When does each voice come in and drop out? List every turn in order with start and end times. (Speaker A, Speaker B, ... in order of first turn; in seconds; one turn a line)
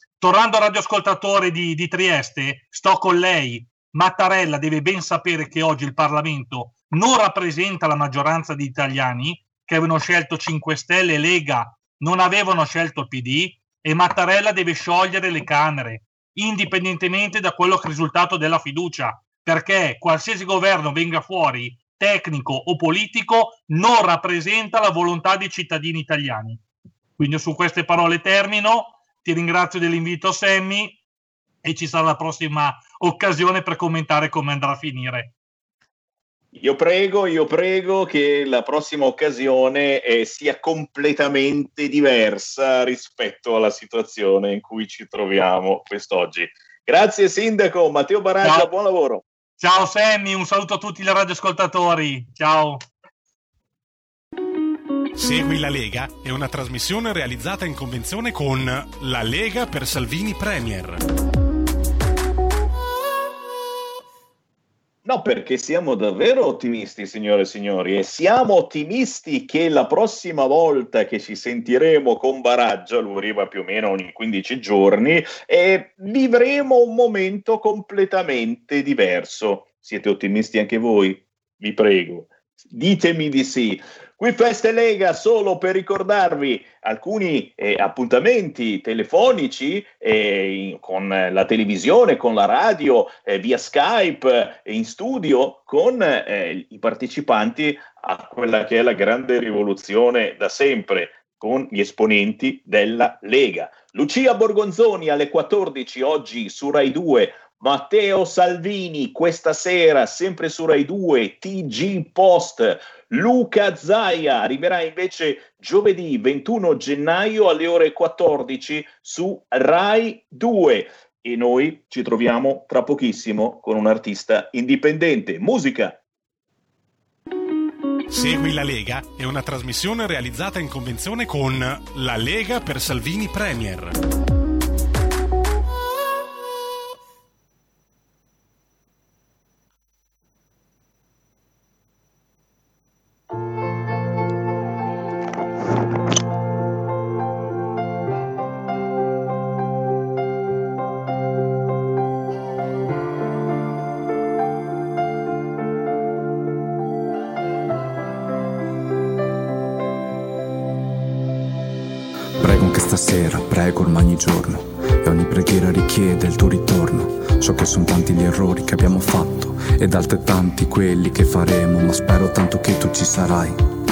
Speaker A: 0.2-26.6
Speaker A: 27.2-31.0
Speaker A: 31.6-35.3
Speaker B: 36.5-49.2
Speaker A: 48.4-48.7
Speaker A: 49.6-52.8
Speaker C: 55.2-61.0
Speaker B: 65.0-126.0
Speaker C: 128.1-134.0
Speaker D: 162.4-173.6